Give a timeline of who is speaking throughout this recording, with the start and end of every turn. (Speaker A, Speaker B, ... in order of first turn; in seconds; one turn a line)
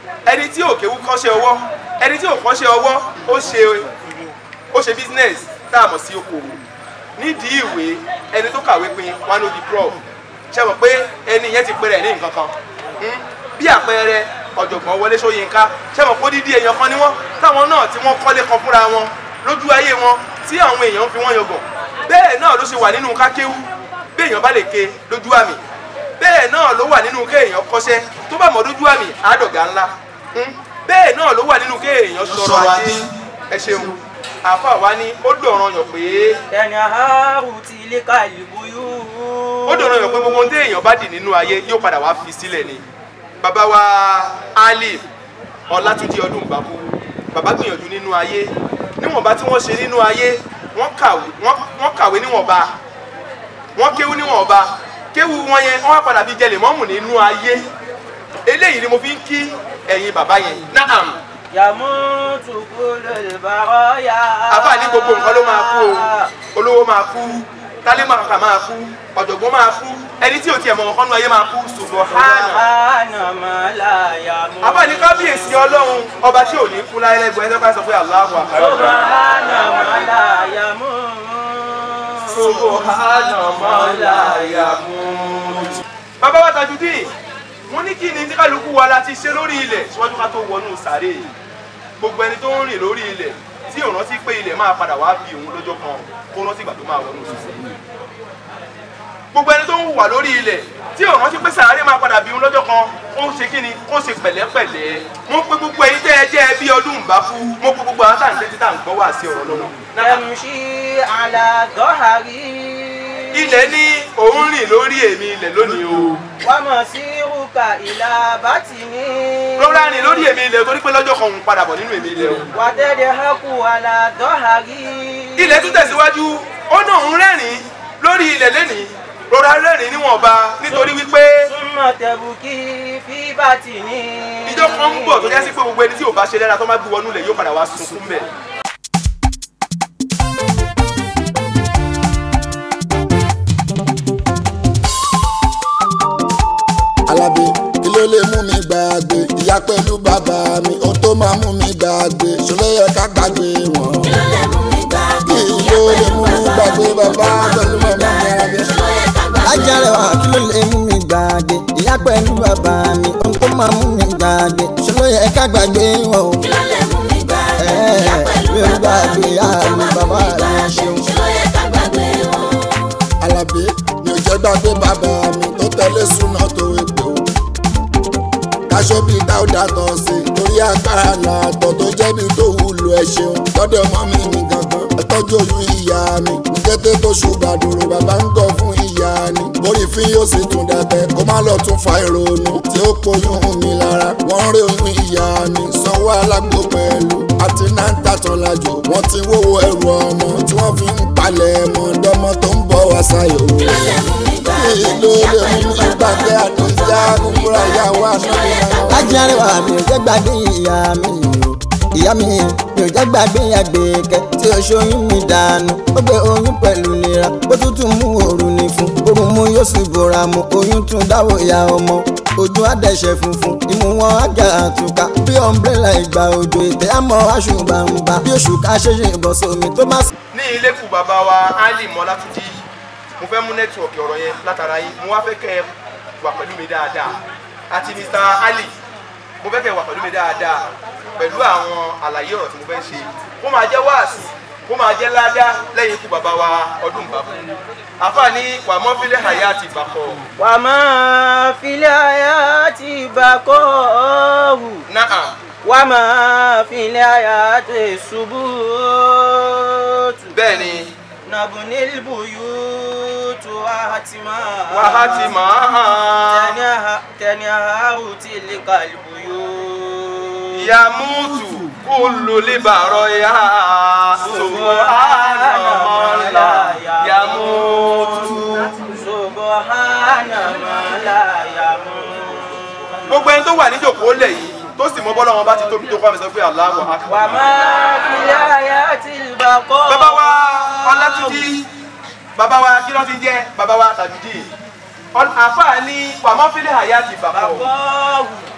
Speaker A: 0.2-3.9
Speaker A: 4.7-6.6
Speaker A: 7.2-10.0
Speaker A: 10.5-23.6
Speaker A: 24.1-25.6
Speaker A: 26.2-36.4
Speaker B: 36.5-40.5
Speaker A: 39.7-42.8
Speaker A: 43.4-45.0
Speaker A: 45.7-52.7
Speaker A: 53.8-57.6
Speaker A: 58.5-61.2
Speaker B: 61.5-66.3
Speaker A: 64.5-72.6
Speaker B: 72.1-75.6
Speaker A: 74.6-79.0
Speaker B: 78.5-82.8
Speaker A: 82.3-87.1
Speaker B: 83.5-84.8
Speaker A: 87.7-91.3
Speaker A: 92.0-97.6
Speaker A: 99.3-110.2
Speaker B: 110.0-113.7
Speaker A: 113.3-116.2
Speaker B: 116.4-120.3
Speaker A: 119.6-122.5
Speaker B: 122.5-126.0
Speaker A: 125.4-131.5
Speaker B: 131.5-135.5
Speaker A: 134.4-138.3
Speaker C: 147.1-154.1
Speaker D: 154.0-160.3
Speaker C: 155.2-158.8
Speaker E: 159.4-166.4
Speaker D: 166.4-172.6
Speaker E: 167.6-171.1
Speaker C: 173.2-177.2
Speaker C: 178.7-209.4
Speaker D: 203.6-209.4
Speaker E: 208.9-230.1
Speaker A: 230.3-232.6
Speaker A: 233.2-235.7
Speaker A: 236.2-237.2
Speaker A: 237.7-238.7
Speaker A: 239.4-240.7
Speaker A: 241.2-247.4
Speaker A: 248.0-250.2
Speaker B: 250.4-254.8
Speaker A: 254.9-255.3
Speaker B: 255.6-260.4
Speaker A: 260.3-260.9
Speaker B: 261.2-265.3
Speaker A: 264.7-266.5
Speaker B: 266.3-270.6
Speaker A: 270.5-278.8
Speaker B: 274.2-277.9
Speaker B: 278.9-282.6
Speaker A: 283.1-287.4
Speaker B: 287.1-291.5
Speaker A: 289.9-291.6
Speaker A: 292.4-294.5
Speaker A: 295.1-297.6
Speaker B: 297.3-298.5